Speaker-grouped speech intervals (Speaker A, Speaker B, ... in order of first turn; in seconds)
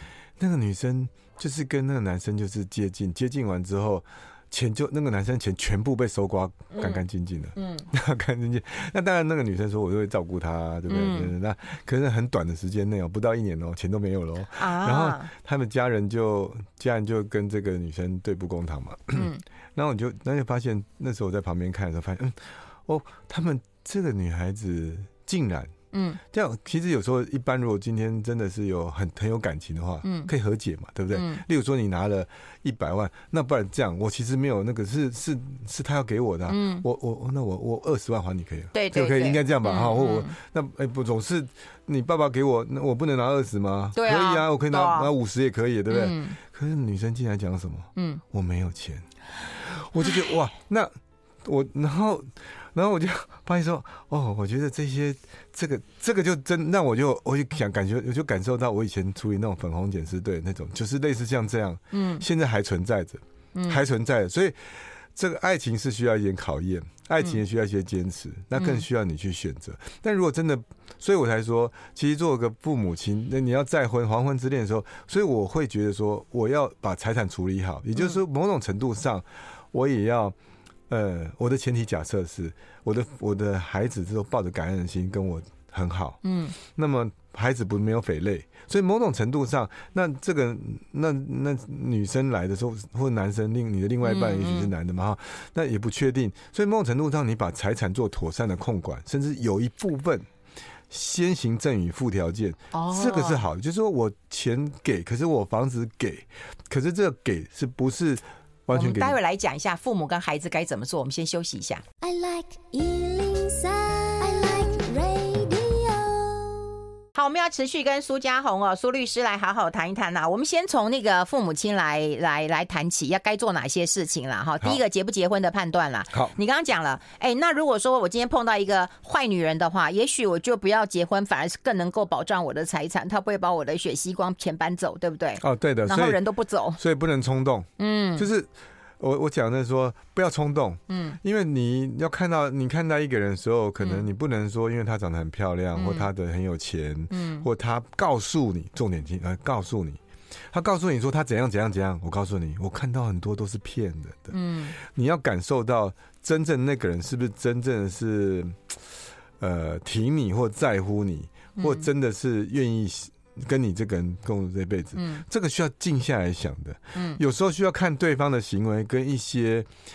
Speaker A: 0.4-25.7, 26.3-50.9, 51.4-80.3, 80.9-100.3, 100.9-109.2, 135.4-136.2, 136.8-150.0, 150.5-158.7, 159.4-169.7
Speaker B: 6.7-7.0, 7.5-7.9, 10.9-11.3, 14.6-15.3, 19.1-19.4, 25.9-26.2, 30.0-30.3, 31.1-31.4, 36.5-36.8, 38.7-40.3, 43.9-45.1, 45.9-46.4, 48.0-48.2, 61.9-62.2, 63.5-63.8, 68.5-68.8, 86.2-86.5, 94.0-94.7, 102.7-103.4, 108.7-111.8, 117.2-136.8, 137.8-138.3, 140.9-141.2, 143.8-144.1, 145.7-146.1, 147.1-147.4, 154.3-154.8, 161.6-161.9, 164.9-165.2, 166.9-167.2
Speaker C: 112.0-116.7